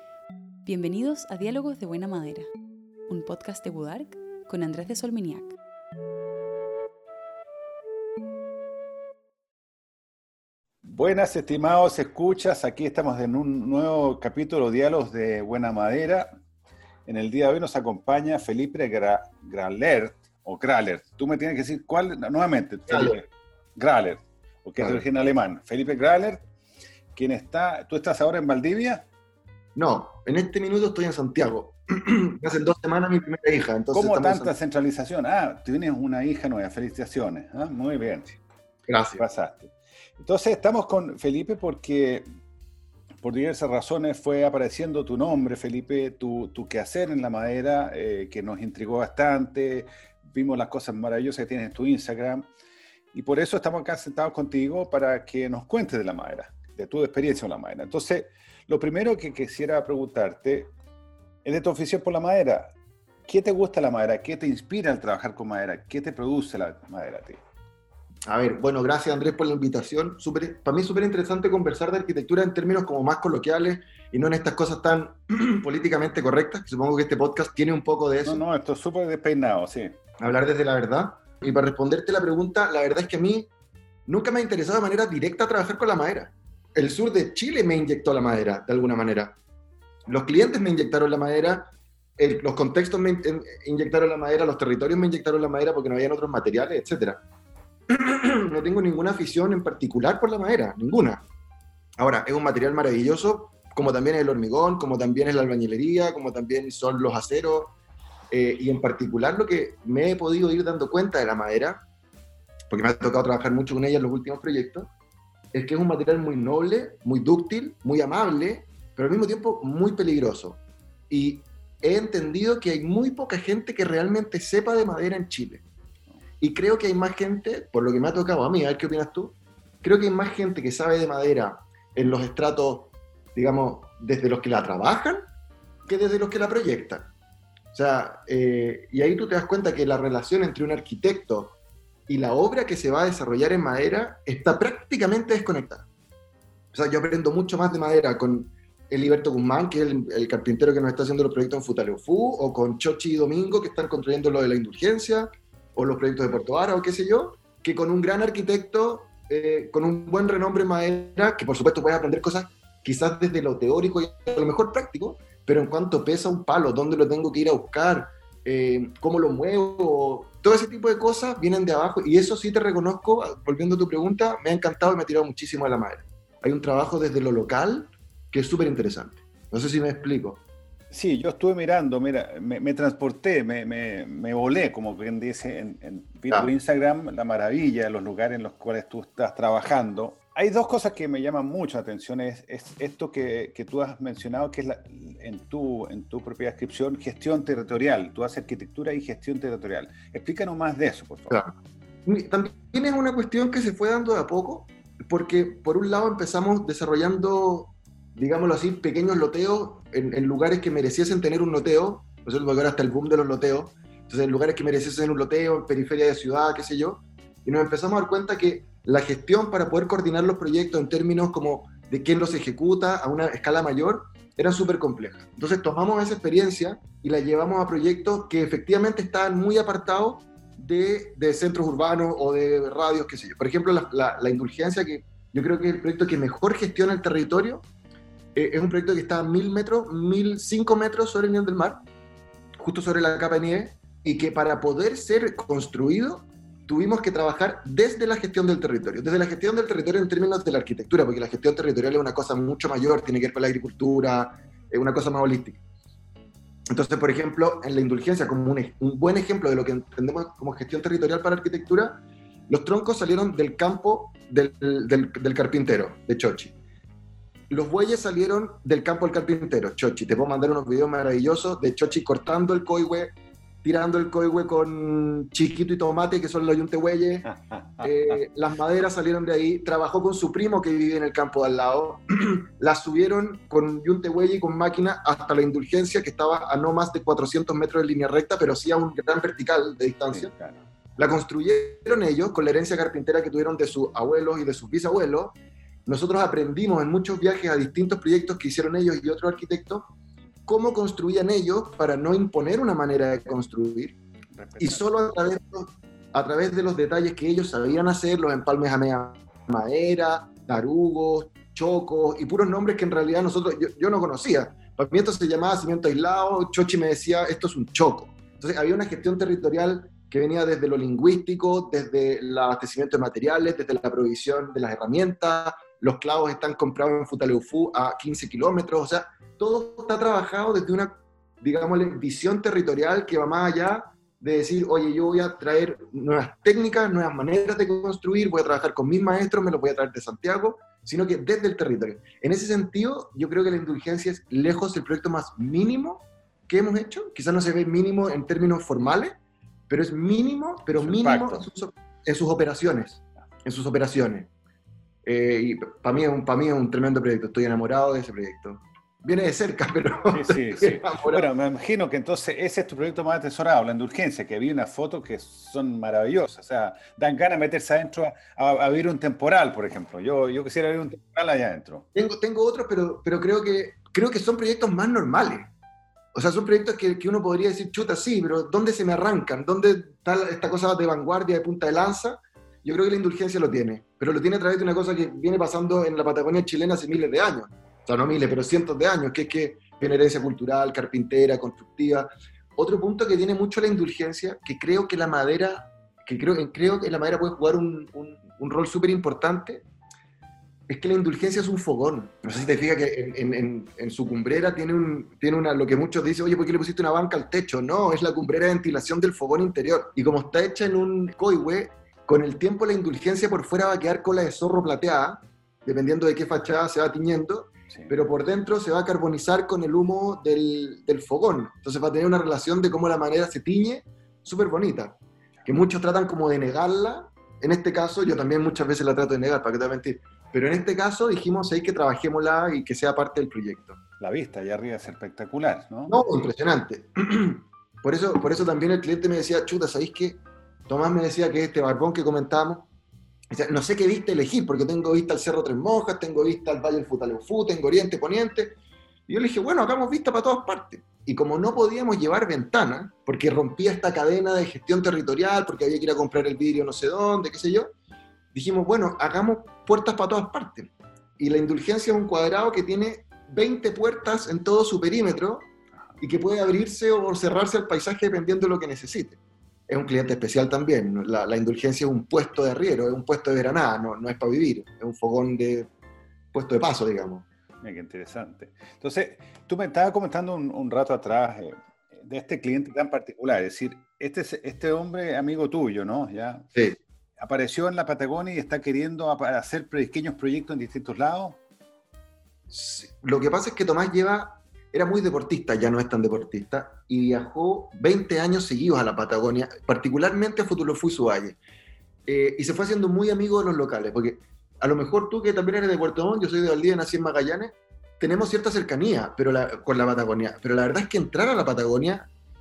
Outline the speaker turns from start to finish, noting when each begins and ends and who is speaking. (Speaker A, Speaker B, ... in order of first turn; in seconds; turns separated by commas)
Speaker A: 0.6-2.5, Speaker A: 3.1-5.5, Speaker B: 10.8-16.3, Speaker B: 17.1-26.4, Speaker C: 22.9-23.2, Speaker B: 27.1-29.0, Speaker C: 29.8-34.5, Speaker B: 33.9-38.4, Speaker C: 38.9-39.2, Speaker B: 39.2-42.3, Speaker B: 43.2-52.5, Speaker B: 53.1-60.7, Speaker B: 61.4-62.7, Speaker B: 63.3-67.4, Speaker C: 68.3-78.4, Speaker B: 78.2-80.0, Speaker C: 80.2-83.5, Speaker C: 84.1-89.3, Speaker C: 90.1-97.2, Speaker C: 97.9-101.2, Speaker C: 102.0-107.7, Speaker C: 108.3-111.8, Speaker C: 112.7-114.9, Speaker C: 115.5-125.6, Speaker C: 126.4-135.2, Speaker C: 135.9-137.1, Speaker C: 137.7-141.6, Speaker C: 142.1-145.8, Speaker C: 146.7-180.4, Speaker B: 180.9-201.4, Speaker C: 202.1-237.7, Speaker C: 238.3-241.8, Speaker C: 242.6-255.6, Speaker C: 256.7-266.5, Speaker C: 267.5-273.1, Speaker C: 273.6-290.3, Speaker B: 277.3-277.9, Speaker B: 290.1-290.6, Speaker C: 291.0-295.3, Speaker C: 295.9-299.9, Speaker C: 300.4-304.0, Speaker B: 304.3-305.1, Speaker C: 304.6-349.1, Speaker C: 349.7-354.3, Speaker B: 350.8-351.4, Speaker C: 355.0-361.3, Speaker B: 360.1-371.9, Speaker C: 371.9-375.5, Speaker C: 376.1-399.6, Speaker C: 400.7-433.8, Speaker B: 434.0-436.0, Speaker C: 435.9-442.7, Speaker C: 443.3-448.5, Speaker C: 449.1-457.7, Speaker C: 458.3-465.5, Speaker C: 466.0-469.2, Speaker C: 469.7-475.7, Speaker C: 476.3-477.2, Speaker B: 477.6-486.5, Speaker B: 487.2-491.4, Speaker C: 492.5-501.4, Speaker C: 502.1-512.1